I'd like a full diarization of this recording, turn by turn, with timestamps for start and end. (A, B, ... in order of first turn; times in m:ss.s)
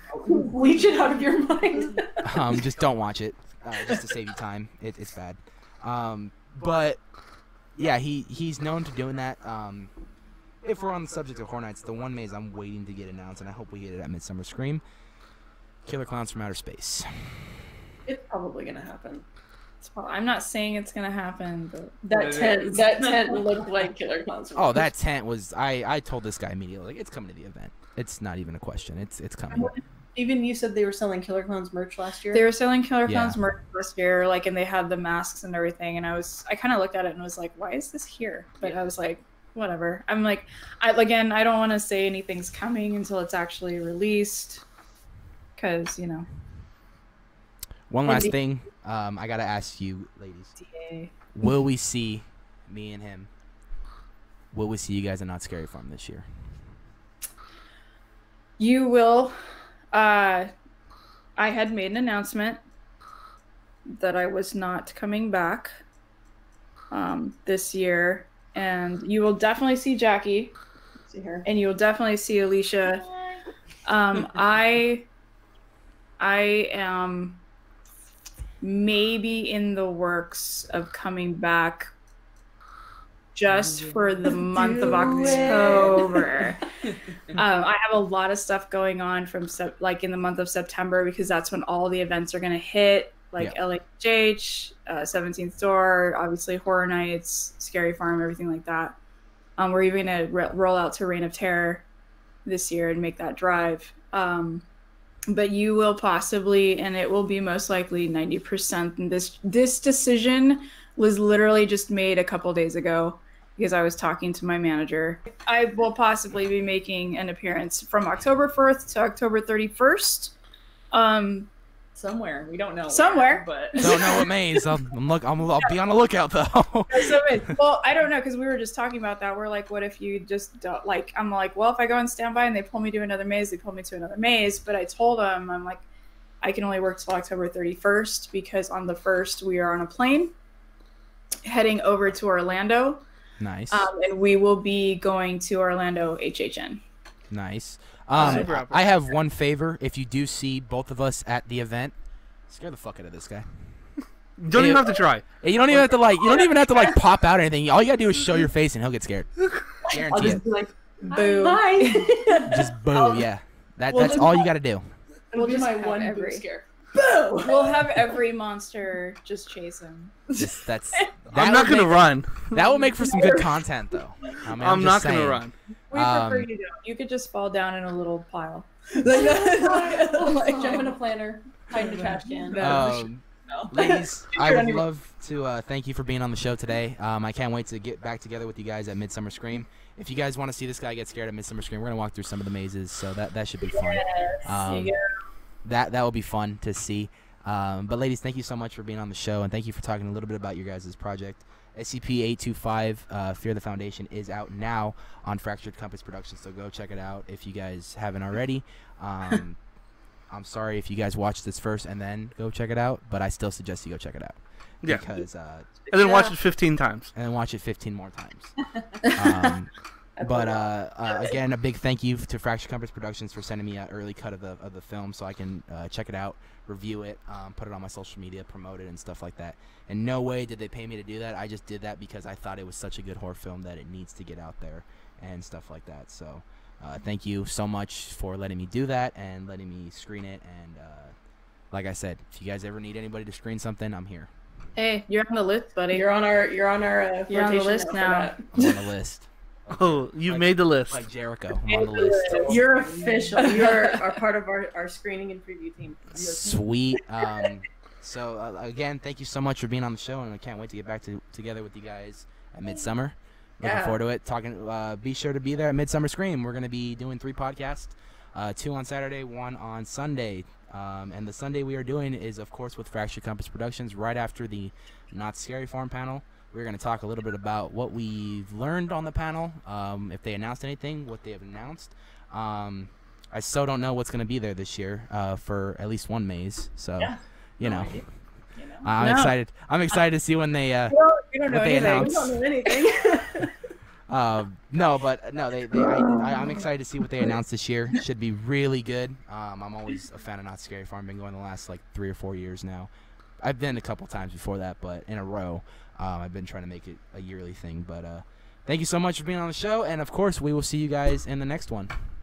0:00.2-0:02.4 A
0:02.2-0:07.0 B
0:07.8-0:09.9 B
0:10.6-0:14.8 B
0:15.8-0:17.6 B
0:18.1-0:19.2 A
0:19.8-0:23.1 C
0:22.1-0:24.9 A
0:24.6-0:29.7 B
0:29.5-0:29.8 C
0:30.1-0:32.4 A
0:32.3-0:44.6 C
0:33.1-0:33.4 B
0:45.6-0:46.3 C
0:47.9-0:50.6 B
0:48.0-0:48.3 C
0:50.6-0:51.1 C
0:51.3-0:53.3 B
0:54.5-0:56.3 B
0:58.6-0:59.4 C
0:59.9-1:00.5 C
1:01.4-1:02.6 C
1:03.9-1:05.8 C
1:06.9-1:10.5 C
1:11.1-1:11.4 A
1:11.4-1:13.0 C
1:13.8-1:15.1 C
1:16.2-1:17.4 C
1:18.6-1:21.9 C
1:23.4-1:26.6 C
1:23.5-1:26.2 D
1:24.5-1:26.4 A
1:27.3-1:39.0 C
1:39.6-1:41.8 C
1:42.4-1:44.6 C
1:45.3-2:00.4 C
2:00.9-2:01.5 C
2:02.0-2:04.0 D
2:02.9-2:03.4 C
2:03.8-2:07.5 B
2:06.9-2:15.8 C
2:16.4-2:20.3 C
2:21.4-2:23.0 C
2:23.4-2:23.8 B
2:23.7-2:26.8 C
2:27.3-2:31.9 B
2:28.2-2:28.8 E
2:32.5-2:33.5 B
2:34.4-2:35.3 E
2:34.5-2:40.4 B
2:39.8-2:43.2 A
2:41.1-2:42.1 C
2:42.4-2:44.9 B
2:43.9-2:44.5 A
2:43.9-2:44.3 C
2:45.3-2:48.0 A
2:45.3-2:46.4 C
2:47.4-2:50.2 C
2:50.4-2:56.5 B
2:51.3-2:52.6 E
2:53.1-2:53.4 A
2:54.5-2:55.5 E
2:55.9-3:00.7 C
2:59.0-3:02.9 A
3:00.4-3:00.9 D
3:01.7-3:03.1 C
3:01.7-3:02.4 D
3:02.6-3:15.0 B
3:03.5-3:04.8 A
3:13.7-3:15.0 C
3:15.6-3:29.6 B
3:30.3-3:35.9 B
3:35.9-3:37.1 E
3:36.0-3:36.2 A
3:37.1-4:01.1 B
4:01.7-4:04.3 B
4:04.8-4:06.1 C
4:05.9-4:08.8 A
4:07.3-4:08.3 C
4:08.5-4:12.7 B
4:09.8-4:11.0 E
4:11.7-4:12.6 C
4:12.4-4:16.7 A
4:13.6-4:13.9 C
4:16.1-4:48.0 B
4:23.6-4:24.0 A
4:47.6-4:48.0 A
4:48.8-4:51.0 B
4:49.0-4:49.3 C
4:50.9-4:52.2 C
4:51.5-4:52.4 B
4:51.8-4:53.5 A
4:54.1-5:11.9 B
4:55.8-4:56.6 A